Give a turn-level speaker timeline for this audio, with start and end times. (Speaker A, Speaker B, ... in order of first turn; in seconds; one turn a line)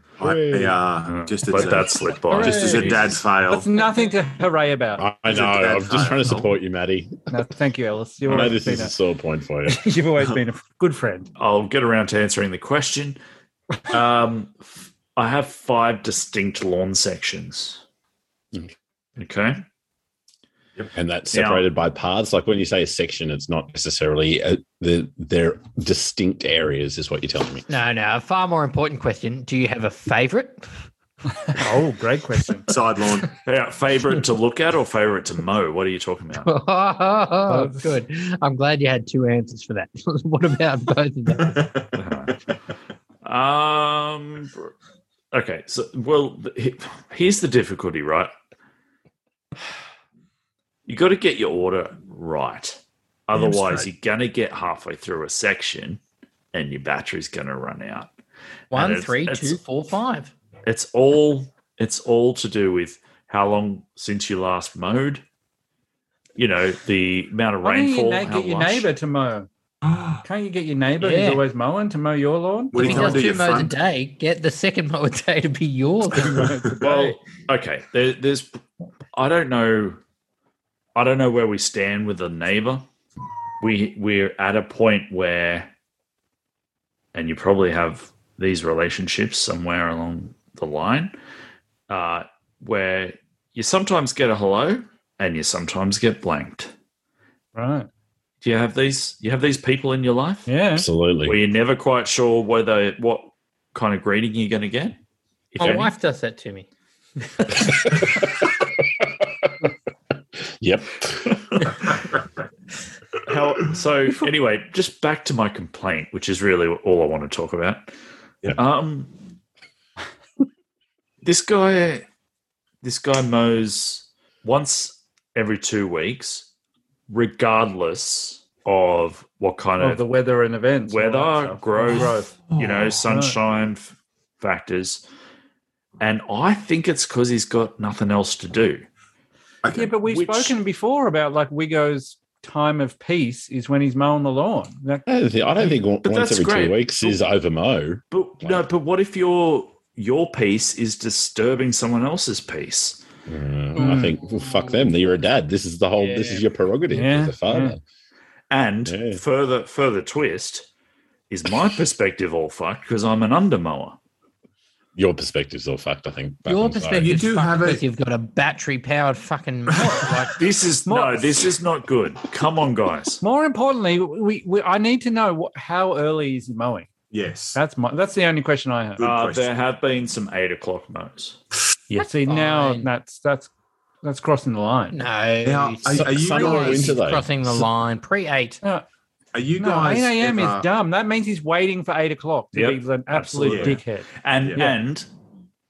Speaker A: 0.2-3.8
Speaker B: 0.2-0.8
Speaker C: 1.1-3.2
Speaker D: 2.4-2.9
Speaker D: 3.5-5.1
Speaker B: 5.0-7.3
Speaker A: 5.2-6.5
Speaker D: 7.3-8.9
Speaker B: 8.2-9.8
Speaker D: 9.7-11.3
Speaker C: 11.4-13.2
Speaker C: 13.9-17.8
Speaker C: 19.2-19.6
Speaker B: 20.9-27.7
Speaker C: 21.3-21.7
Speaker E: 27.7-30.5
Speaker D: 31.5-32.7
Speaker A: 32.7-33.3
Speaker C: 33.4-36.5
Speaker E: 36.5-41.6
Speaker D: 37.5-37.9
Speaker A: 41.5-41.9
Speaker C: 41.9-42.4
Speaker C: 43.2-44.7
Speaker C: 45.3-48.3
Speaker C: 50.9-56.0
Speaker A: 53.4-53.9
Speaker C: 56.5-58.1
Speaker C: 58.7-59.6
Speaker E: 58.7-60.3
Speaker C: 60.7-65.2
Speaker C: 66.4-68.9
Speaker D: 67.6-69.5
Speaker A: 69.8-70.2
Speaker D: 70.2-73.2
Speaker E: 71.0-71.4
Speaker A: 72.7-73.8
Speaker E: 72.8-76.3
Speaker D: 76.1-77.2
Speaker C: 76.8-78.6
Speaker C: 79.1-80.0
Speaker C: 81.0-82.9
Speaker C: 83.6-85.7
Speaker C: 87.1-91.1
Speaker C: 91.9-96.7
Speaker D: 97.5-97.9
Speaker C: 98.4-100.5
Speaker D: 100.5-100.9
Speaker B: 100.8-101.4
Speaker C: 101.2-105.0
Speaker C: 105.5-105.9
Speaker E: 105.6-106.7
Speaker B: 107.5-109.7
Speaker B: 110.5-111.4
Speaker C: 113.2-117.9
Speaker C: 118.5-119.2
Speaker C: 121.2-122.1
Speaker C: 122.8-126.5
Speaker C: 127.1-130.0
Speaker D: 129.8-132.4
Speaker C: 130.9-135.0
Speaker A: 131.9-133.0
Speaker D: 133.1-133.4
Speaker C: 136.0-138.9
Speaker A: 139.6-140.0
Speaker D: 139.7-145.0
Speaker C: 140.1-140.6
Speaker B: 145.1-148.7
Speaker C: 146.0-147.2
Speaker C: 148.1-153.0
Speaker B: 153.3-157.8
Speaker D: 153.8-154.2
Speaker D: 156.9-157.8
Speaker C: 158.5-160.7
Speaker B: 158.9-159.2
Speaker C: 161.3-164.0
Speaker B: 164.9-167.2
Speaker E: 166.5-170.0
Speaker A: 166.9-167.8
Speaker A: 169.8-170.3
Speaker D: 169.8-171.5
Speaker C: 170.4-173.2
Speaker D: 173.2-176.9
Speaker A: 177.1-177.6
Speaker D: 177.6-179.0
Speaker A: 179.0-179.5
Speaker C: 179.0-181.4
Speaker D: 181.9-183.5
Speaker E: 182.3-182.9
Speaker D: 184.0-185.0
Speaker E: 184.9-188.6
Speaker A: 185.4-186.9
Speaker B: 185.9-187.3
Speaker A: 189.3-190.7
Speaker D: 189.6-194.8
Speaker C: 192.5-195.1
Speaker A: 193.5-193.8
Speaker A: 194.4-194.7